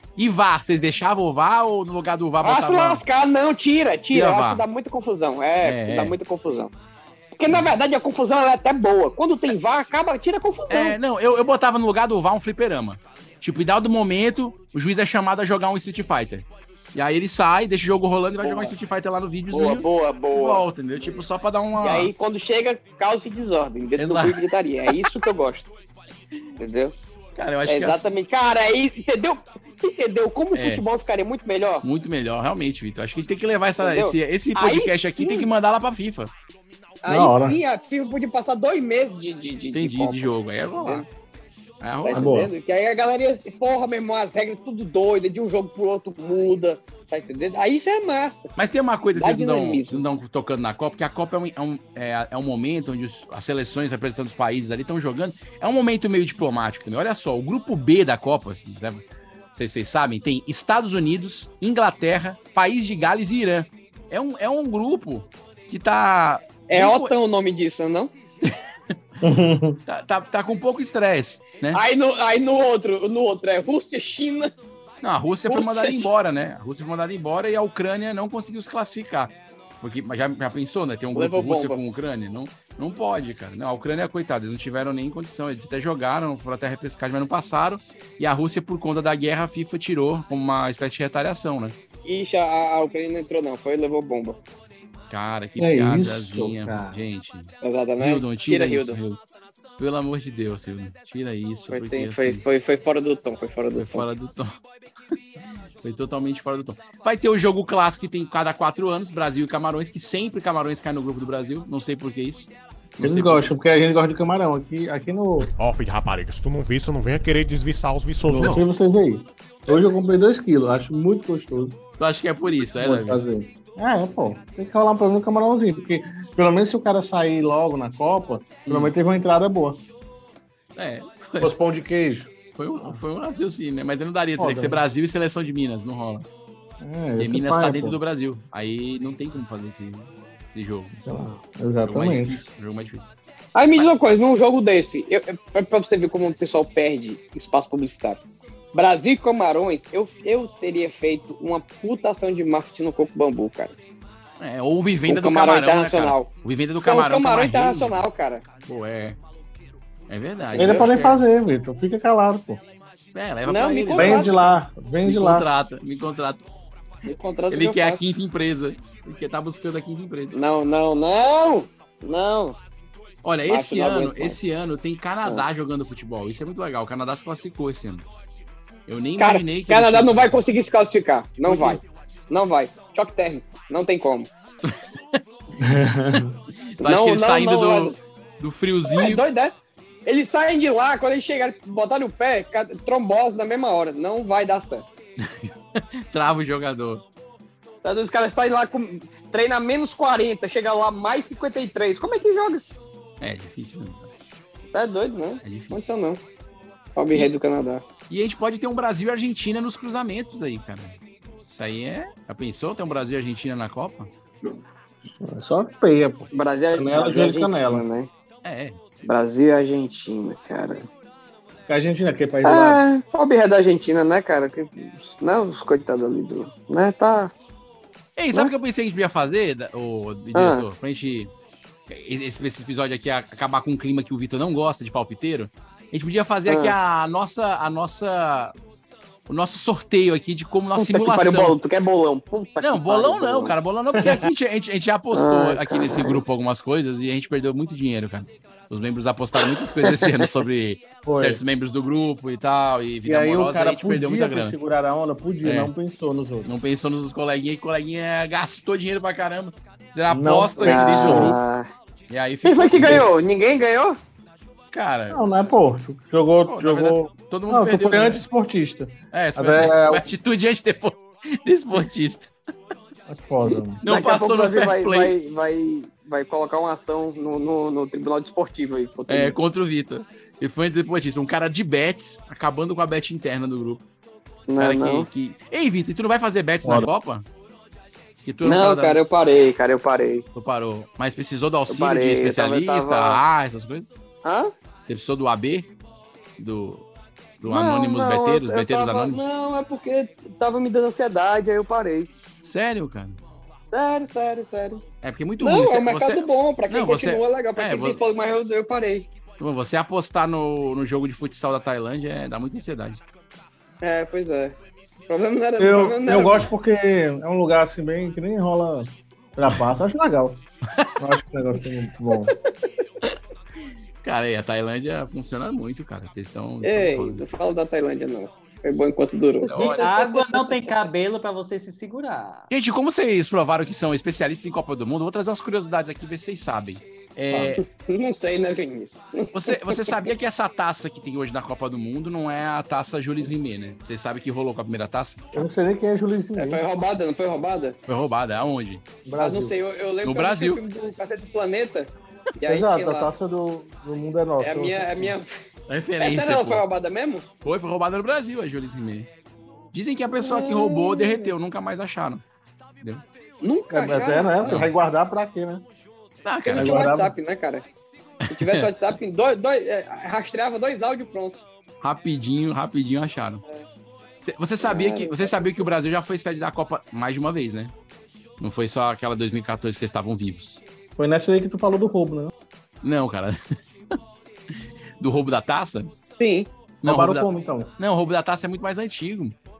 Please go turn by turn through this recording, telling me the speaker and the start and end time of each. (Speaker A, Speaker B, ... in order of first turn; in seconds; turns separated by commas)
Speaker A: 0.2-3.0, Speaker B: 2.4-6.7, Speaker A: 4.1-4.6, Speaker A: 5.6-6.2, Speaker B: 7.3-11.0, Speaker A: 10.7-22.1, Speaker B: 18.4-18.7, Speaker B: 19.5-20.6, Speaker B: 21.8-25.7, Speaker A: 24.0-25.1, Speaker B: 26.6-26.9, Speaker A: 27.4-28.1, Speaker B: 27.6-31.8, Speaker A: 30.5-30.8, Speaker A: 31.8-36.3, Speaker B: 33.8-35.5, Speaker B: 37.0-41.0, Speaker C: 37.1-37.6, Speaker A: 39.7-41.0, Speaker A: 41.8-42.5, Speaker B: 42.0-48.5, Speaker C: 42.1-42.5, Speaker A: 48.5-59.0, Speaker B: 49.1-50.0, Speaker A: 59.5-67.1, Speaker B: 66.7-68.1, Speaker C: 69.2-69.8, Speaker A: 69.9-71.8, Speaker B: 71.7-74.5, Speaker A: 75.0-91.8, Speaker B: 75.5-76.1, Speaker B: 81.1-81.8, Speaker B: 92.0-94.4, Speaker A: 95.1-99.2, Speaker C: 95.6-97.0, Speaker B: 97.6-99.0, Speaker A: 99.8-102.4, Speaker B: 101.7-104.1, Speaker A: 103.8-104.5, Speaker A: 105.8-113.5, Speaker C: 113.0-115.5, Speaker D: 115.6-118.6, Speaker C: 118.3-121.8, Speaker A: 122.0-123.2, Speaker C: 122.8-129.8, Speaker A: 128.7-128.9, Speaker A: 130.8-131.5, Speaker C: 131.4-133.0, Speaker A: 132.6-136.2, Speaker C: 134.4-134.8, Speaker C: 136.8-138.0, Speaker A: 137.2-141.2, Speaker C: 141.1-142.3, Speaker A: 141.8-143.1, Speaker B: 143.5-148.2, Speaker B: 148.7-153.7, Speaker A: 154.4-158.1, Speaker B: 155.1-156.3, Speaker B: 156.8-158.4, Speaker A: 158.7-159.2, Speaker A: 160.1-161.2, Speaker B: 160.5-160.9, Speaker C: 160.5-162.6, Speaker A: 163.1-164.3, Speaker B: 163.4-164.5, Speaker C: 163.9-165.4, Speaker A: 165.0-166.4, Speaker B: 167.0-168.0, Speaker A: 167.5-170.3, Speaker B: 170.3-172.6, Speaker A: 173.2-178.0, Speaker B: 173.5-174.4, Speaker A: 178.9-180.4, Speaker B: 179.2-184.3, Speaker A: 181.4-181.8, Speaker A: 184.6-185.2, Speaker C: 185.6-186.4, Speaker B: 186.8-188.0, Speaker A: 186.8-189.2, Speaker B: 188.9-189.5, Speaker B: 190.1-194.8, Speaker A: 195.2-197.0, Speaker B: 197.8-202.6, Speaker A: 203.2-204.1, Speaker B: 204.7-206.2, Speaker A: 205.4-205.8, Speaker B: 206.9-207.8, Speaker A: 208.1-210.9, Speaker A: 211.5-214.1, Speaker C: 215.2-217.8, Speaker B: 216.3-218.1, Speaker A: 218.4-218.8, Speaker B: 219.1-220.9, Speaker C: 221.7-222.8, Speaker B: 222.4-227.3, Speaker A: 228.2-231.3, Speaker B: 230.3-230.6, Speaker A: 231.9-238.5, Speaker B: 236.5-236.7, Speaker A: 239.3-241.6, Speaker B: 240.8-243.5, Speaker A: 242.6-254.6, Speaker C: 243.9-244.2, Speaker B: 245.1-246.2, Speaker B: 249.4-250.1, Speaker C: 251.0-251.4, Speaker C: 253.0-256.5, Speaker A: 255.4-255.7, Speaker A: 256.4-261.4, Speaker C: 260.1-261.4, Speaker B: 260.6-261.7, Speaker A: 262.1-263.0, Speaker B: 262.4-264.0, Speaker C: 262.8-263.0, Speaker A: 264.7-265.2, Speaker C: 265.1-270.1, Speaker A: 266.4-268.2, Speaker A: 269.1-272.3, Speaker C: 273.1-273.8, Speaker B: 273.5-279.4, Speaker A: 273.8-275.1, Speaker A: 279.1-283.8, Speaker B: 284.5-285.1, Speaker A: 284.6-287.2, Speaker C: 286.6-286.9, Speaker A: 288.2-289.0, Speaker B: 288.4-290.2, Speaker A: 290.3-293.9, Speaker B: 291.7-293.2, Speaker B: 294.2-294.5, Speaker A: 294.9-295.7, Speaker A: 296.4-296.8, Speaker A: 297.4-299.2, Speaker B: 297.4-302.1, Speaker A: 302.4-303.2, Speaker B: 303.7-304.8, Speaker A: 305.0-308.0, Speaker B: 305.4-309.1, Speaker A: 309.4-313.0, Speaker B: 313.8-314.5, Speaker B: 315.1-316.4, Speaker C: 315.6-320.4, Speaker C: 321.0-322.3, Speaker A: 324.0-327.2, Speaker B: 326.6-330.7, Speaker A: 329.5-329.9, Speaker E: 329.7-332.5, Speaker A: 332.5-337.6, Speaker B: 337.6-339.9, Speaker A: 339.3-345.4, Speaker C: 345.3-346.6, Speaker B: 346.4-347.8, Speaker A: 347.9-348.8, Speaker C: 349.0-349.5, Speaker B: 349.2-353.1, Speaker A: 350.0-350.6, Speaker C: 352.4-355.1, Speaker B: 354.4-355.3, Speaker A: 355.7-356.6, Speaker B: 356.0-357.2, Speaker A: 357.4-359.1, Speaker A: 359.7-362.2, Speaker B: 360.2-361.3, Speaker B: 363.4-364.6, Speaker C: 363.7-365.6, Speaker A: 366.2-366.9, Speaker B: 366.4-367.6, Speaker C: 366.5-367.1, Speaker A: 368.3-368.6, Speaker B: 368.3-371.4, Speaker A: 371.8-373.4, Speaker A: 374.2-377.7, Speaker B: 374.6-375.4, Speaker A: 378.4-380.6, Speaker C: 381.0-382.3, Speaker A: 382.8-383.4, Speaker A: 385.0-385.9, Speaker B: 386.2-386.5, Speaker A: 386.8-389.3, Speaker C: 386.8-387.7